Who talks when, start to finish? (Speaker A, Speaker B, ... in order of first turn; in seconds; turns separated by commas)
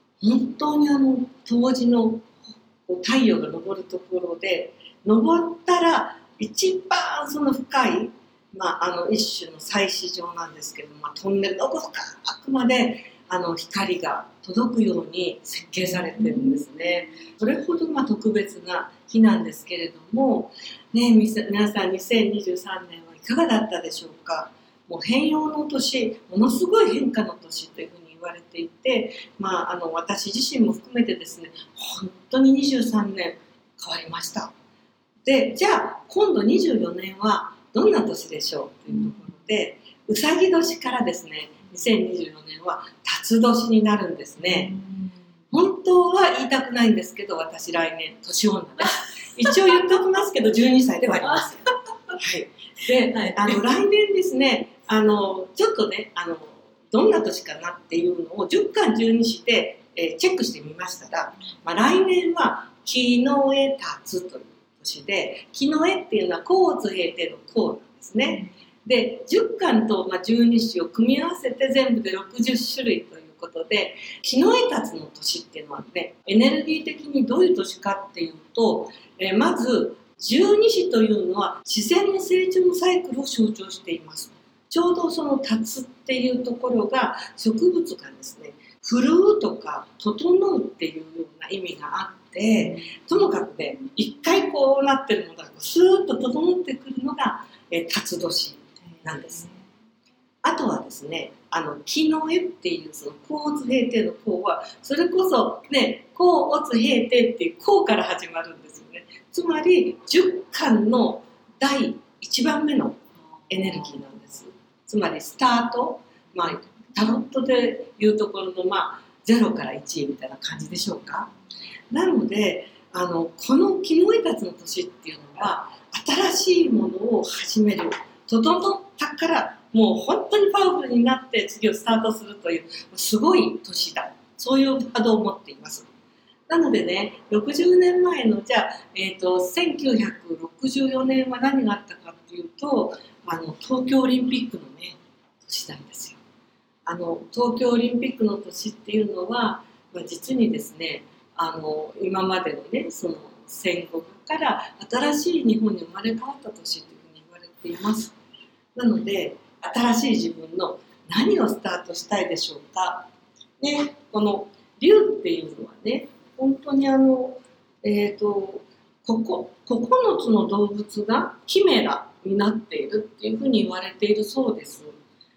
Speaker A: 0.2-34.5, Speaker A: 35.2-44.8, Speaker A: 45.5-99.5, Speaker A: 100.4-121.3, Speaker A: 121.9-135.9, Speaker A: 136.5-146.2, Speaker A: 146.8-158.2, Speaker A: 158.7-175.0